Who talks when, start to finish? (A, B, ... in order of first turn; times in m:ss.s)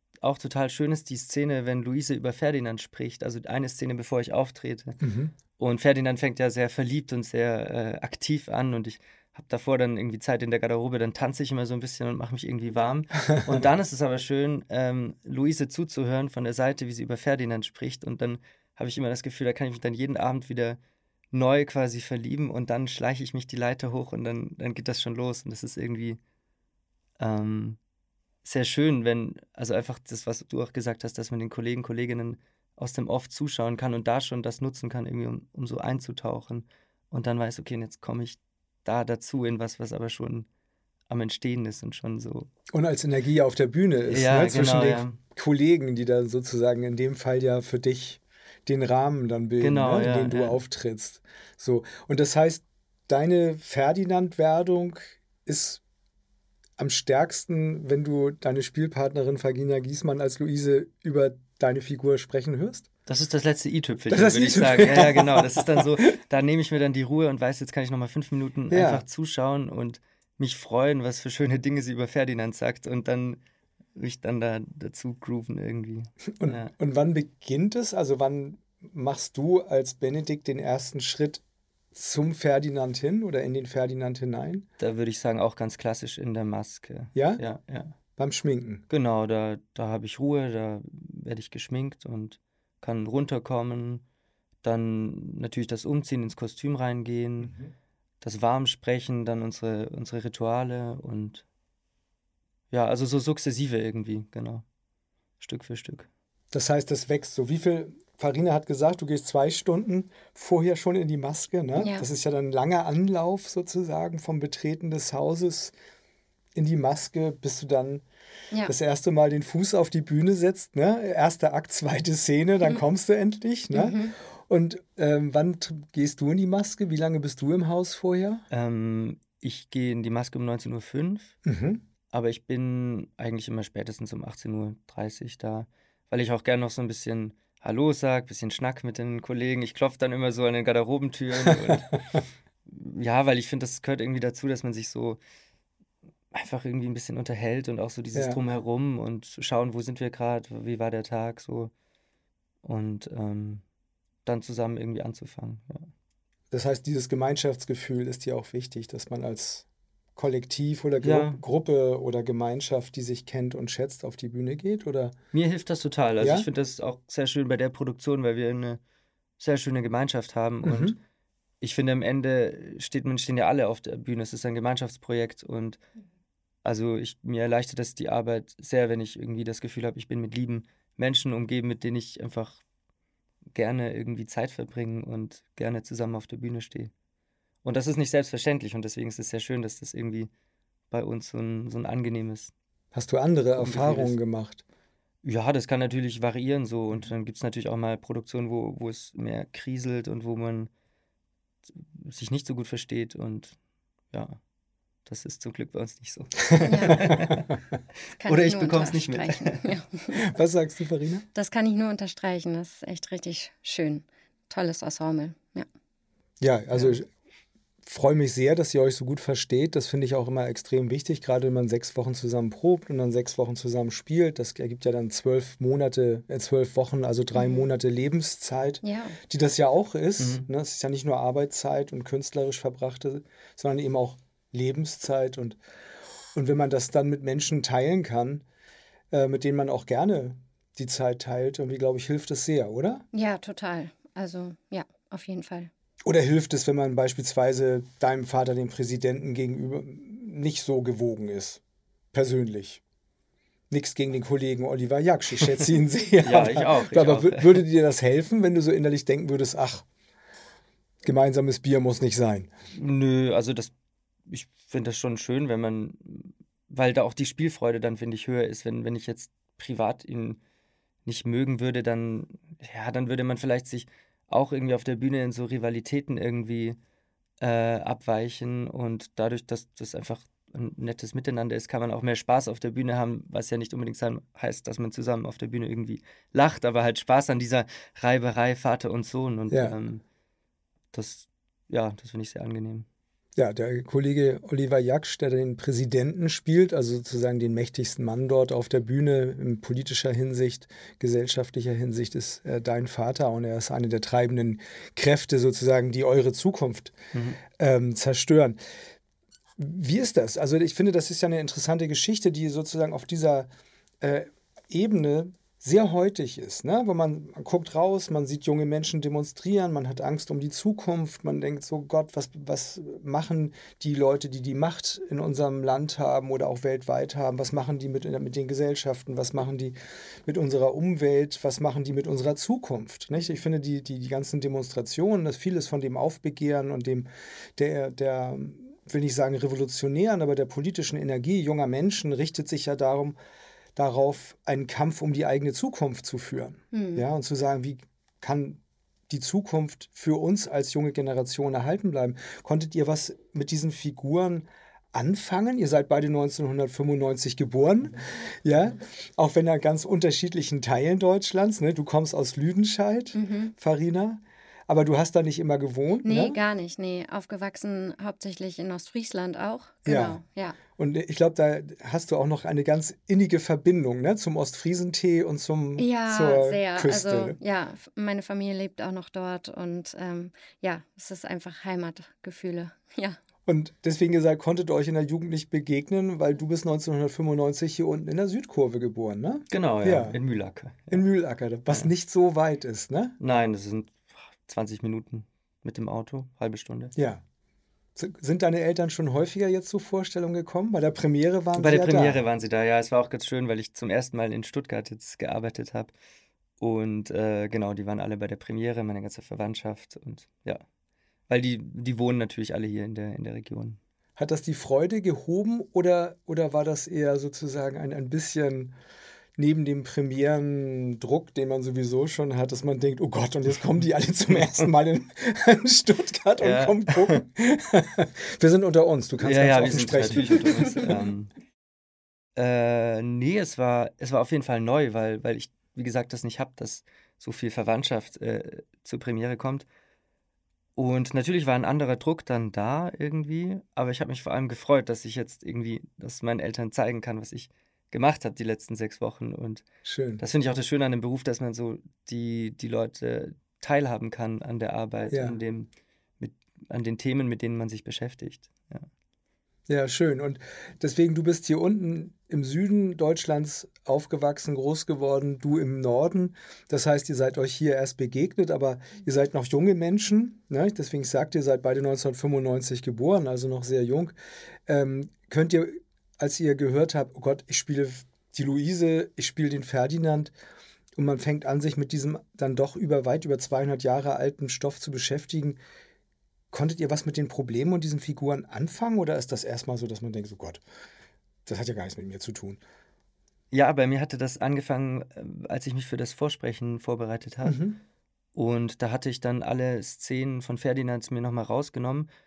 0:00.2-0:05.0 A
0:05.0-0:05.3 B
0:05.6-0:20.8 A
0:21.3-0:26.2 A
0:27.2-0:27.8 A
0:28.4-0:40.5 A
0:41.1-0:42.5 A
0:42.7-0:55.8 B
0:44.1-0:45.2 A
0:49.6-0:50.6 A
0:56.8-1:02.9 B
1:03.1-1:13.4 A
1:04.1-1:06.1 B
1:08.7-1:09.0 B
1:14.0-1:16.7 A
1:16.4-1:21.4 B
1:21.9-1:24.7 B
1:24.8-1:28.0 A
1:27.1-1:27.4 B
1:28.2-1:28.8 B
1:28.9-1:34.0 A
1:34.6-1:37.5 A
1:38.2-1:41.4 A
1:42.7-1:44.6 A
1:45.4-1:46.1 A
1:46.5-1:55.7 B
1:51.8-1:52.0 C
1:56.6-1:58.0 B
1:58.7-2:08.4 B
2:03.7-2:04.2 C
2:08.5-2:11.4 A
2:11.4-2:11.8 B
2:12.1-2:25.2 A
2:21.4-2:22.2 B
2:26.3-2:31.7 A
2:28.1-2:28.4 B
2:32.6-2:33.6 A
2:34.2-2:35.9 A
2:36.5-2:45.2 B
2:41.0-2:41.4 A
2:45.3-2:48.8 A
2:46.2-2:46.5 B
2:49.4-2:51.0 A
2:50.6-2:51.0 B
2:51.6-2:55.8 A
2:56.6-3:02.6 A
3:03.5-3:06.9 A
3:07.6-3:10.3 A
3:10.9-3:12.5 A
3:12.9-3:14.6 B
3:13.6-3:14.2 A
3:15.2-3:20.7 A
3:21.8-3:23.6 A
3:24.1-3:24.4 A
3:25.1-3:27.5 A
3:26.5-3:27.6 B
3:26.7-3:27.0 C
3:28.2-3:30.2 C
3:28.3-3:29.7 A
3:30.2-3:31.3 B
3:31.4-3:35.7 C
3:36.4-3:37.1 B
3:37.8-3:55.6 B
3:47.4-3:47.6 C
3:48.8-3:49.2 C
3:50.2-3:50.4 A
3:56.4-3:58.4 B
3:59.1-4:03.0 B
4:03.1-4:05.7 C
4:06.0-4:11.6 B
4:12.1-4:12.8 B
4:13.7-4:19.8 B
4:16.2-4:17.6 A
4:21.0-4:22.5 B
4:22.8-4:23.7 A
4:24.3-4:30.4 A
4:31.1-4:36.8 A
4:37.4-4:50.0 A
4:49.5-4:49.8 B
4:50.9-4:52.9 A
4:53.4-5:07.0 B
5:07.5-5:08.6 B
5:09.6-5:13.5 B
5:14.0-5:43.2 B
5:43.8-6:06.4 B
5:46.7-5:47.0 C
6:03.1-6:03.5 C
6:06.0-6:10.6 C
6:09.8-6:10.2 B
6:10.7-6:17.4 B
6:15.8-6:23.2 C
6:23.5-6:30.2 B
6:29.5-6:31.0 A
6:30.9-6:33.2 B
6:33.2-6:37.0 A
6:37.0-6:37.2 B
6:38.0-6:42.2 B
6:41.6-6:45.9 A
6:46.6-6:50.6 A
6:51.3-6:53.8 A
6:54.2-6:58.8 B
6:59.4-7:11.0 B
7:06.4-7:07.2 A
7:09.2-7:11.3 A
7:12.4-7:19.7 A
7:20.8-7:29.6 A
7:29.8-7:30.2 B
7:30.2-7:35.7 A
7:35.1-7:35.4 B
7:36.2-7:38.9 A
7:39.7-7:54.2 B
7:54.7-8:00.3 B
8:01.0-8:05.6 B
8:06.5-8:10.6 B
8:11.5-8:12.6 B
8:13.5-8:17.6 A
8:17.4-8:17.8 B
8:18.4-8:22.1 A